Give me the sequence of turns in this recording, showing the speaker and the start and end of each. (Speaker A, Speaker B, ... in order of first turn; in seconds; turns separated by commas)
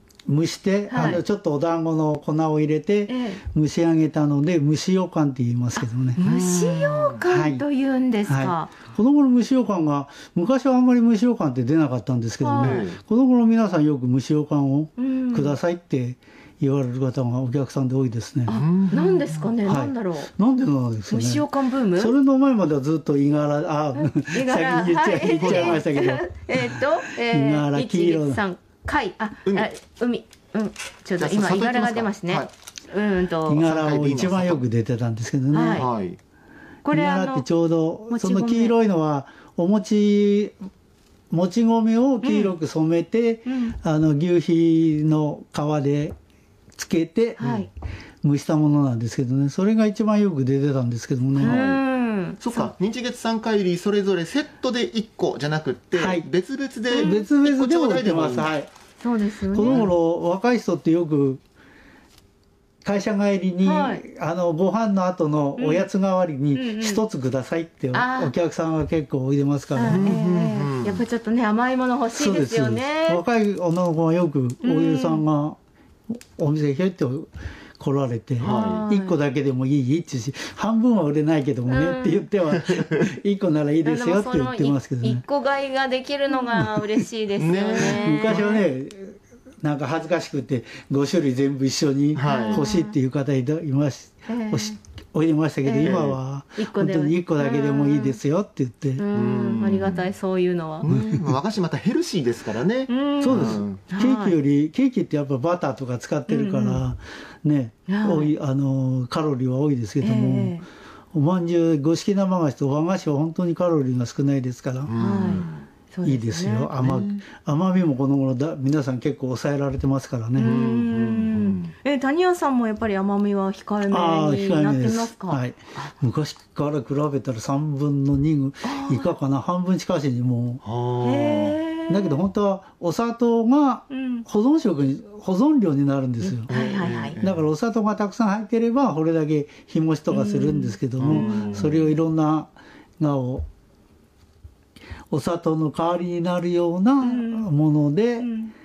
Speaker A: 0.3-6.2, Speaker B: 0.9-1.2, Speaker C: 0.9-1.2, Speaker B: 3.1-3.4, Speaker B: 5.8-8.7, Speaker C: 6.2-7.2, Speaker A: 7.3-7.7, Speaker A: 8.2-18.6, Speaker B: 12.4-12.8, Speaker C: 12.6-13.0, Speaker B: 15.0-15.6, Speaker B: 18.5-20.3, Speaker C: 18.5-19.6, Speaker A: 19.6-28.4, Speaker B: 21.1-22.1, Speaker B: 23.9-33.6, Speaker C: 25.2-25.9, Speaker C: 31.2-32.5, Speaker A: 33.5-35.9, Speaker C: 33.6-34.6, Speaker B: 35.5-35.9, Speaker C: 35.8-36.2, Speaker B: 36.8-37.5, Speaker A: 36.9-40.6, Speaker B: 38.1-38.8, Speaker A: 41.3-46.2, Speaker B: 42.2-42.5, Speaker B: 43.5-43.8, Speaker A: 46.8-47.4, Speaker C: 47.4-47.7, Speaker B: 47.4-47.7, Speaker A: 48.2-51.6, Speaker B: 51.4-52.7, Speaker C: 51.4-51.8, Speaker C: 52.4-58.6, Speaker A: 55.9-56.3, Speaker A: 56.9-58.7, Speaker B: 56.9-57.2, Speaker B: 59.0-59.9, Speaker A: 59.5-61.4, Speaker C: 59.6-59.9, Speaker A: 62.8-70.2, Speaker B: 63.6-64.0, Speaker B: 65.6-65.9, Speaker B: 66.5-67.0, Speaker B: 67.9-68.3, Speaker B: 69.7-73.2, Speaker C: 69.8-71.0, Speaker A: 72.1-75.6, Speaker B: 74.6-75.2, Speaker A: 76.3-85.2, Speaker C: 78.4-78.9, Speaker B: 78.4-79.2, Speaker B: 81.7-82.3, Speaker C: 82.6-82.9, Speaker B: 83.8-88.7, Speaker A: 86.3-87.0, Speaker C: 87.4-88.6, Speaker A: 87.8-99.1, Speaker C: 92.1-92.7, Speaker B: 92.3-93.0, Speaker B: 94.3-94.8, Speaker B: 95.6-98.2, Speaker C: 95.8-96.2, Speaker B: 99.0-100.8, Speaker C: 99.1-100.1, Speaker C: 100.8-103.8, Speaker A: 100.9-101.3, Speaker B: 102.9-104.3, Speaker A: 103.2-110.6, Speaker B: 106.3-106.8, Speaker B: 107.9-108.3, Speaker B: 110.0-110.7, Speaker A: 111.1-114.9, Speaker C: 114.9-115.6, Speaker B: 115.0-116.9, Speaker A: 116.0-120.6, Speaker C: 116.8-117.2, Speaker B: 120.4-125.9, Speaker C: 120.4-121.7, Speaker A: 123.9-130.6, Speaker B: 128.6-129.1, Speaker C: 130.6-131.6, Speaker B: 131.0-132.2, Speaker A: 131.9-136.5, Speaker B: 133.9-134.3, Speaker B: 136.2-137.2, Speaker C: 136.5-137.4, Speaker A: 137.2-143.4, Speaker B: 140.1-141.7, Speaker C: 141.0-141.9, Speaker A: 145.1-148.3, Speaker B: 147.0-147.5, Speaker B: 148.2-148.5